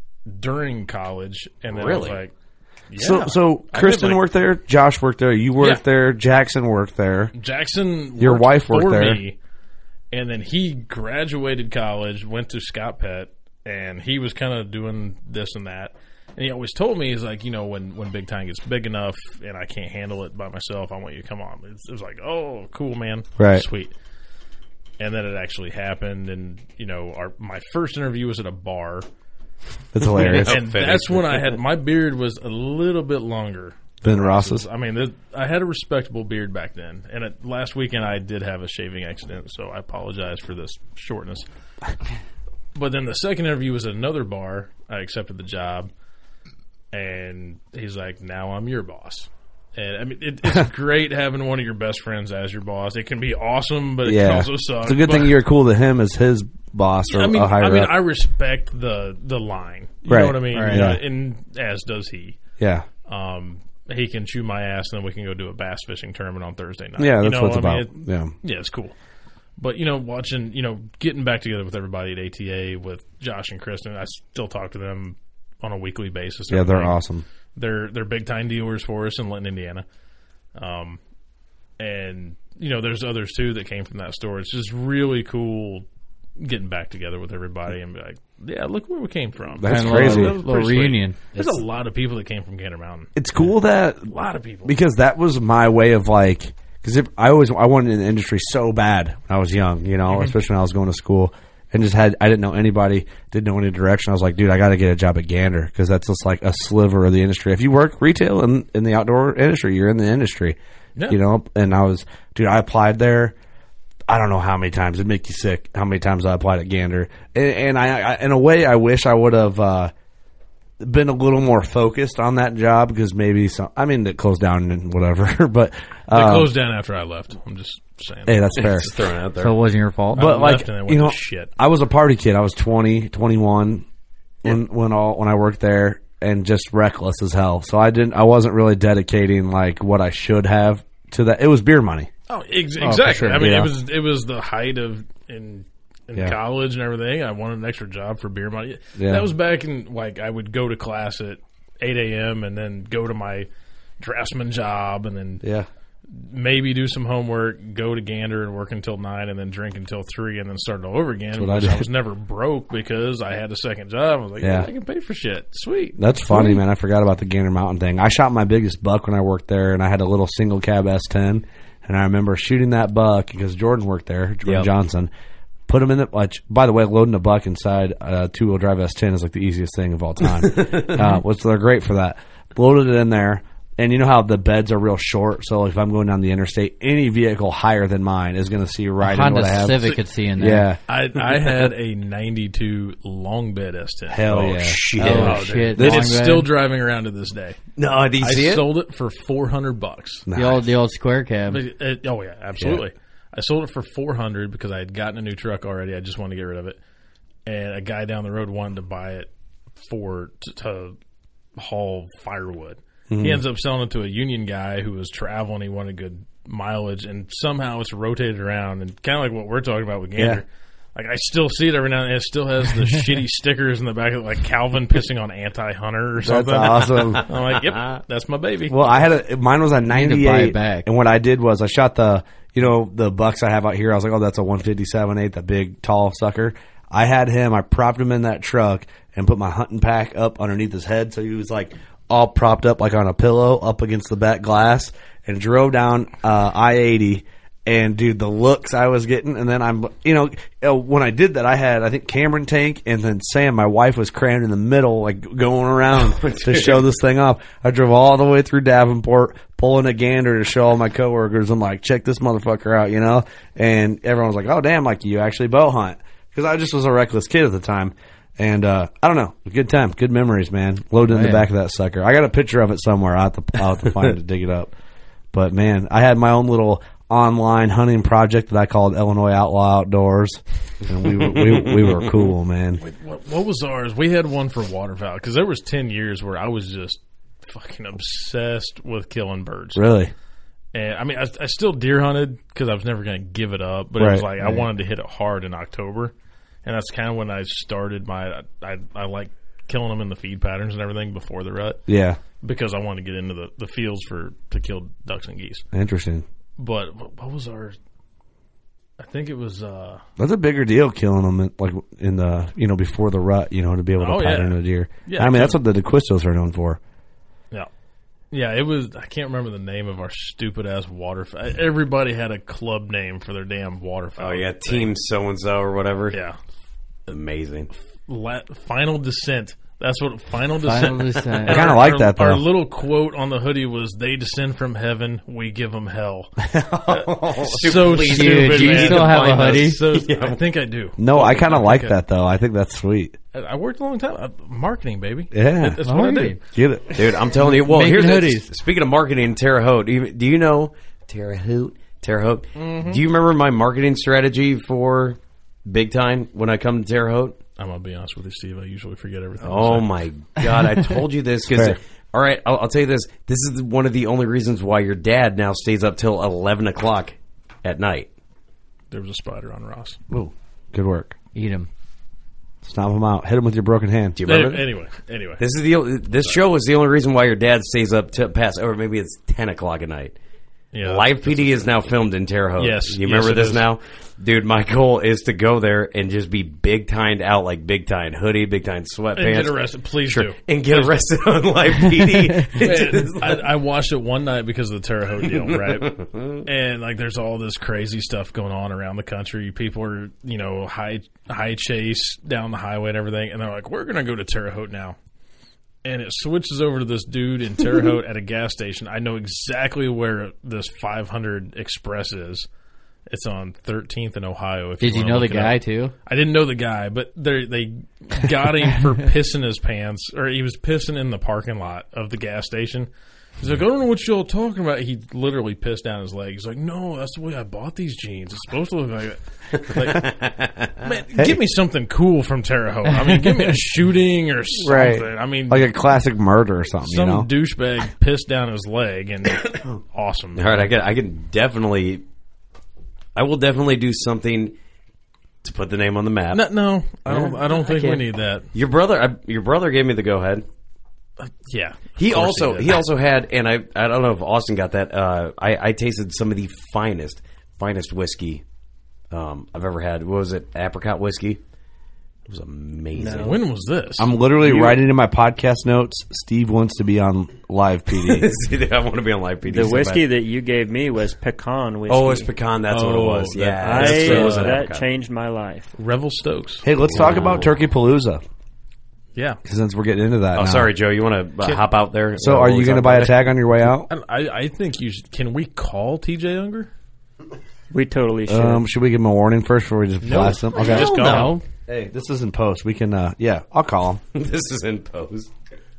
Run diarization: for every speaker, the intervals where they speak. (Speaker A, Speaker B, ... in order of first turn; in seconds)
Speaker A: 0.2-2.3, 2.9-4.2, 7.3-9.4, 10.1-23.9, 25.0-29.1, 30.1-41.5, 42.7-45.9, 46.9-55.4, 57.1-62.4, 63.0-68.9, 69.6-77.0, 77.5-79.8, 80.5-81.0, 81.8-85.8, 86.4-93.1, 94.0-94.7, 100.1-100.3, 126.1-128.8, 130.1-131.5, 142.3-153.5, 154.0-155.4, 156.1-166.6, 190.9-197.6, 198.2-200.3, 201.5-206.8, 207.4-211.0, 211.6-229.0, 282.8-289.9, 290.7-296.1, 296.6-301.8, 302.4-305.6, 306.6-307.8, 309.0-310.0, 314.0-315.6, 318.3-324.9, 326.1-326.4, 328.1-336.3, 336.9-342.0, 343.3-346.4, 352.5-353.0, 357.6-359.9, 368.9-370.0, 374.2-375.4, 380.7-381.8, 382.6-383.6, 389.1-391.0, 392.6-395.9, 396.4-405.0, 405.8-412.5, 413.1-430.1, 430.8-435.7, 436.8-440.7, 446.3-448.5, 451.2-452.8, 463.2-464.2, 472.7-474.6, 475.8-476.6, 479.1-479.4, 483.9-486.7, 490.0-491.4
Speaker B: 1.7-2.2, 30.1-31.6, 128.6-129.6, 180.5-180.9, 194.3-195.5, 197.8-198.7, 256.0-256.8, 281.3-282.0, 324.2-326.2, 327.1-327.7, 336.9-340.4, 346.9-357.4, 359.4-368.1, 374.2-374.6, 375.4-380.1, 380.8-393.4, 395.3-396.4, 429.6-430.8, 440.3-442.0, 443.1-444.5, 445.4-446.5, 447.1-448.0, 448.5-450.4, 452.0-458.4, 459.1-461.4, 462.3-463.4, 468.0-470.1, 471.9-474.9, 476.8-477.5, 480.3-483.2, 490.6-491.4, 494.1-495.3
Speaker C: 3.0-7.3, 8.2-9.2, 23.4-23.6, 29.9-30.6, 34.0-34.6, 54.0-57.9, 60.0-61.0, 62.6-62.9, 67.0-68.3, 76.5-77.2, 89.6-90.4, 93.2-94.1, 94.6-110.6, 111.1-113.3, 114.1-119.9, 120.8-126.5, 128.2-128.9, 130.1-133.8, 134.4-142.1, 143.2-143.7, 148.9-149.3, 155.4-155.7, 161.3-161.9, 164.4-164.7, 166.0-175.1, 175.7-189.8, 190.4-190.8, 194.1-196.1, 200.3-200.6, 213.1-213.4, 220.2-220.4, 226.2-227.2, 228.7-274.7, 275.3-282.8, 289.7-290.1, 294.0-294.6, 301.9-302.2, 305.7-306.2, 310.2-316.8, 331.4-332.4, 336.4-336.8, 341.0-343.1, 345.3-345.8, 346.5-347.0, 361.5-361.8, 370.1-371.1, 372.6-374.2, 434.6-437.3, 464.0-468.3, 476.6-478.2, 479.4-480.7, 482.2-483.9, 488.3-491.1, 491.7-494.0
Speaker D: 60.5-61.0, 89.6-91.6, 129.4-130.3, 142.8-143.4, 189.0-190.7, 195.0-196.5, 200.3-201.6, 229.9-230.8, 271.1-271.4, 330.6-331.7, 337.9-339.8, 345.8-346.4, 347.4-348.5, 371.3-371.7, 414.8-415.9, 490.9-491.4
Speaker E: 462.9-463.4, 469.4-472.3, 473.6-475.7, 487.7-488.6